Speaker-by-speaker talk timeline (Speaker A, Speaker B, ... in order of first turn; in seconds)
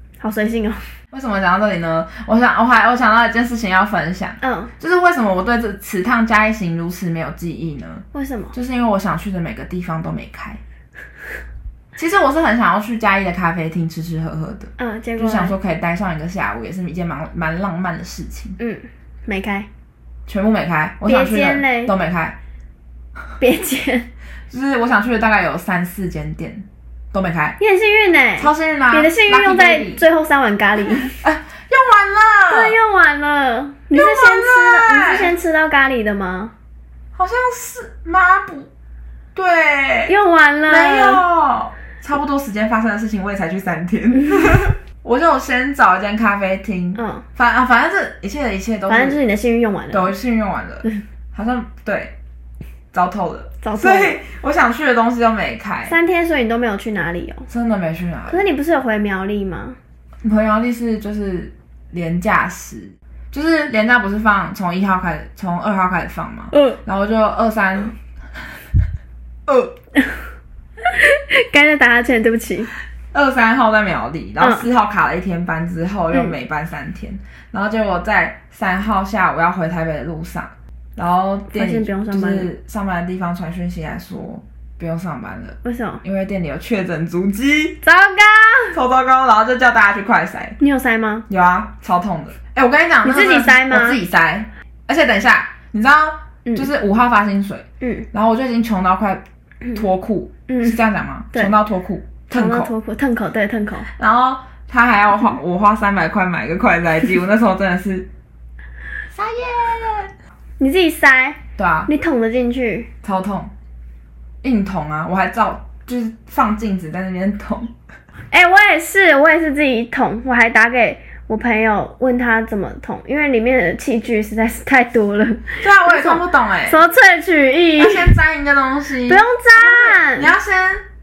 Speaker A: 0.2-0.8, 4.4-4.7, 8.1-8.5, 14.8-15.6, 18.6-19.7, 21.1-21.9, 23.4-24.1, 27.6-31.2, 32.5-36.5, 40.1-41.2, 47.0-47.2, 48.9-50.1, 53.6-54.1, 55.9-57.5, 58.3-59.8, 66.5-66.8, 70.8-72.7, 74.4-74.7, 81.5-82.5, 85.6-86.0, 87.8-88.8, 90.6-91.2, 93.0-94.0, 97.8-98.1, 100.5-100.8, 102.3-103.9, 110.6-112.9, 118.3-128.1, 129.1-130.3
Speaker B: 1.1-10.6, 12.0-18.6, 20.3-22.4, 24.5-27.6, 28.4-30.0, 31.2-32.8, 33.9-35.3, 37.2-38.7, 39.4-40.1, 40.7-49.2, 49.9-52.1, 52.9-56.0, 57.5-58.5, 60.2-68.4, 69.5-69.7, 73.1-87.8, 88.7-90.6, 91.3-99.2, 99.8-102.7, 104.0-108.1, 109.1-110.1, 111.6-111.9, 113.0-113.5, 114.4-117.7, 125.6-126.8, 127.8-130.8